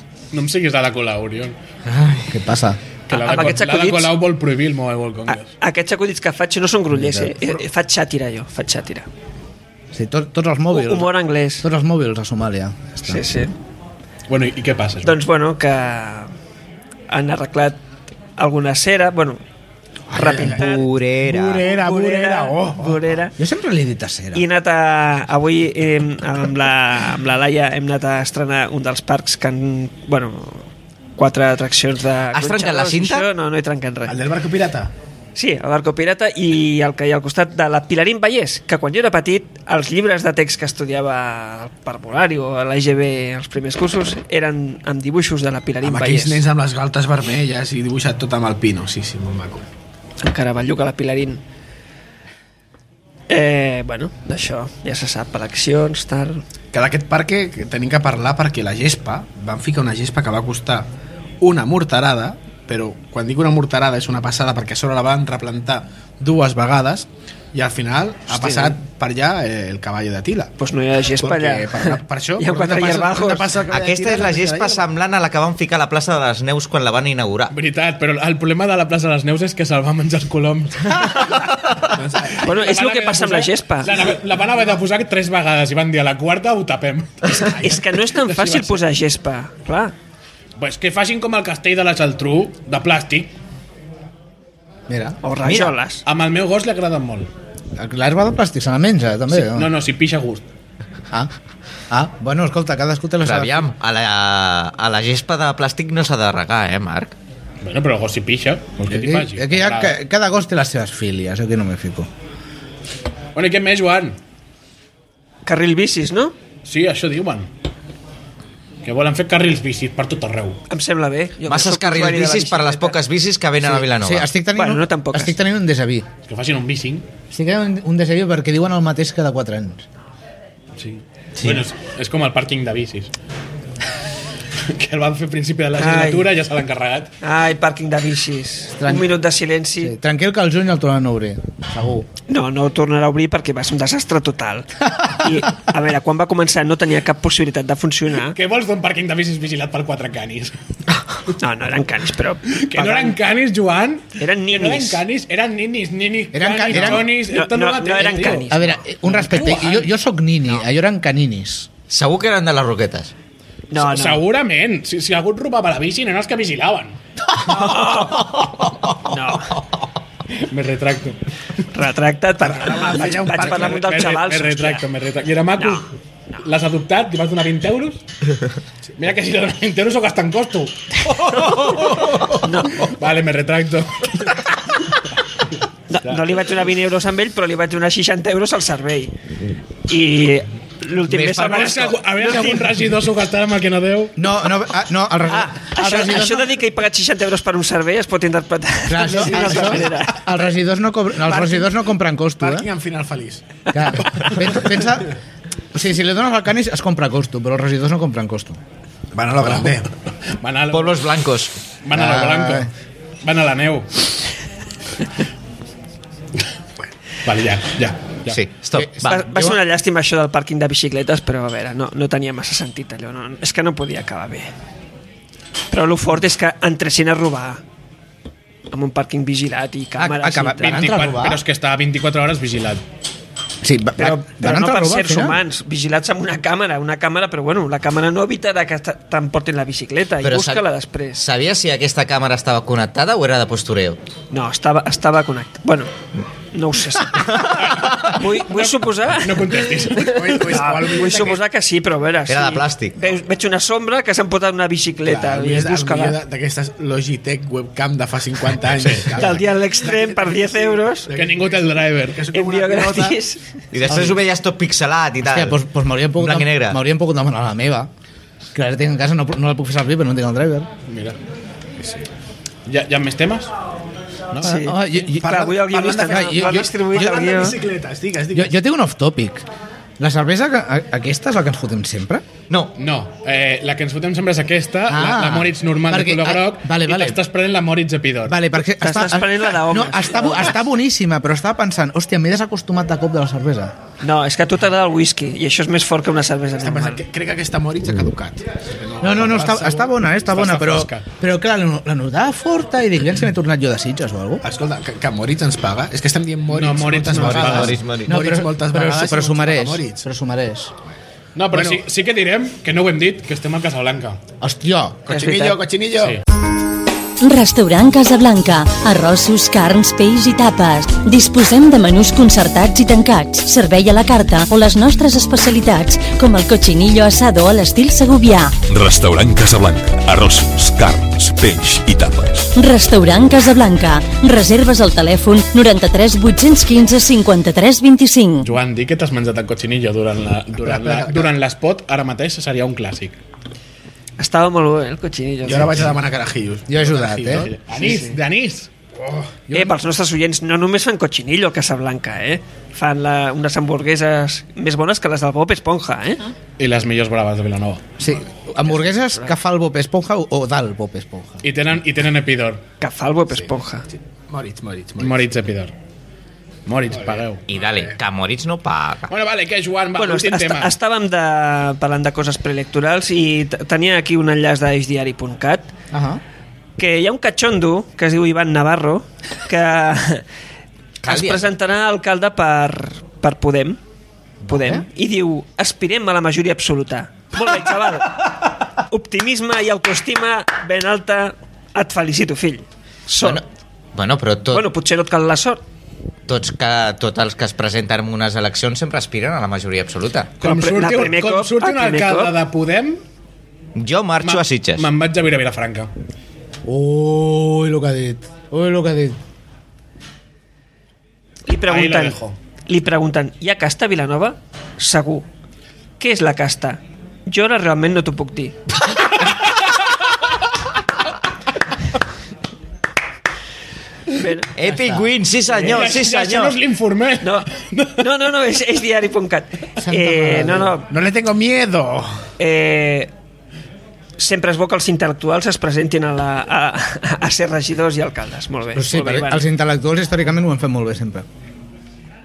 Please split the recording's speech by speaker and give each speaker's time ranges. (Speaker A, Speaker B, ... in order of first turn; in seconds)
Speaker A: 0.3-1.6, 3.1-5.5, 14.3-15.1, 77.5-81.5, 82.4-87.7, 88.3-88.7, 90.6-93.3, 96.0-97.3, 99.3-100.4, 107.6-109.9, 113.3-114.2, 116.6-117.5, 118.8-120.6, 126.2-127.0, 130.8-133.1, 134.6-137.1, 148.3-150.6, 152.5-158.5, 159.1-159.9, 163.8-167.0, 170.4-171.2, 173.3-178.0, 179.0-184.5, 186.0-186.4, 191.4-194.2, 210.3-211.1, 211.8-212.7, 213.2-214.1, 217.2-218.4, 230.6-232.8, 247.6-250.7, 258.8-259.1, 261.1-262.2, 270.9-271.2, 272.6-273.5, 282.8-288.4, 300.3-301.1, 306.5-307.8, 311.3-314.2, 338.4-343.2, 347.3-348.7, 356.6-357.8, 361.4-362.6, 365.0-365.7, 366.6-367.4, 369.1-370.7, 400.4-403.0, 404.2-405.9, 411.7-412.4, 419.1-419.7, 425.5-428.1
Speaker B: 2.2-2.8, 6.9-7.4, 9.9-13.4, 23.4-24.4, 94.9-95.2, 97.8-99.7, 101.9-103.7, 108.8-112.1, 123.6-126.1, 127.3-129.8, 131.4-131.6, 138.8-139.1, 139.8-142.1, 156.3-157.1, 158.5-161.7, 191.1-191.7, 194.2-196.5, 198.9-202.7, 203.7-205.1, 205.7-208.6, 211.9-212.7, 218.7-219.6, 230.0-231.4, 233.6-235.4, 263.9-264.2, 265.2-267.9, 268.5-270.7, 274.4-277.4, 278.3-279.4, 280.0-282.2, 284.9-287.2, 288.3-293.7, 299.0-304.4, 307.3-310.7, 314.4-315.0, 346.7-347.5, 349.5-349.7, 358.0-361.4, 375.9-376.2, 384.5-384.8, 406.6-409.2, 424.7-425.0, 429.8-430.8, 438.7-441.2
Speaker C: 3.1-4.1, 5.3-9.1, 10.7-11.7, 13.1-13.5, 15.0-16.3, 17.1-17.8, 18.4-19.4, 20.1-20.9, 21.6-23.3, 24.3-34.2, 35.4-46.4, 50.2-51.4, 53.3-56.4, 68.3-68.8, 70.6-73.6, 82.4-84.0, 87.3-89.9, 95.2-96.0, 115.5-116.3, 120.7-123.0, 124.5-125.4, 135.8-136.3, 137.2-139.9, 142.3-148.4, 151.3-153.2, 154.2-155.0, 157.1-158.8, 163.7-164.2, 167.4-169.6, 171.7-174.8, 175.6-175.8, 181.3-181.7, 182.3-182.9, 185.9-189.1, 189.9-192.7, 195.3-200.2, 201.2-201.7, 219.0-224.5, 225.7-227.6, 228.7-230.8, 234.0-241.2, 244.3-245.9, 246.5-256.2, 259.1-261.1, 262.3-263.5, 274.4-277.6, 288.8-290.6, 294.0-297.0, 315.1-315.6, 344.2-345.9, 347.8-348.2, 349.5-356.3, 362.8-363.9, 369.9-375.7, 376.8-380.2, 381.0-383.8, 384.5-388.3, 388.8-393.4, 394.5-395.6, 400.4-402.3, 411.5-415.3, 416.0-418.6, 424.1-424.5, 427.2-430.9, 432.4-433.1, 434.2-439.4
Speaker D: 20.1-23.0, 34.0-34.9, 45.8-49.7, 56.7-60.9, 61.4-70.5, 71.2-74.8, 81.9-82.5, 87.4-87.8, 172.4-173.9, 199.1-199.9, 202.4-204.3, 209.1-209.9, 250.1-251.4, 255.0-263.2, 275.2-278.5, 296.6-299.9, 304.4-310.0, 311.5-311.8, 315.1-316.2, 340.6-341.3, 345.4-348.0, 349.0-349.3, 363.4-365.3, 366.9-367.9, 430.9-432.2
Speaker E: 20.4-21.6, 32.3-33.3, 73.7-77.5, 95.4-95.7, 103.2-107.1, 121.5-124.3, 161.9-163.1, 210.7-211.5, 218.3-219.2, 240.2-240.6, 241.2-244.0, 247.1-248.2, 252.3-253.0, 263.7-265.6, 266.2-266.8, 307.3-308.2, 367.5-369.1, 381.0-381.5, 393.9-394.7, 396.3-400.3, 403.7-404.9, 424.6-426.6
Speaker F: 317.2-328.6, 332.5-338.5
Speaker G: 328.7-332.5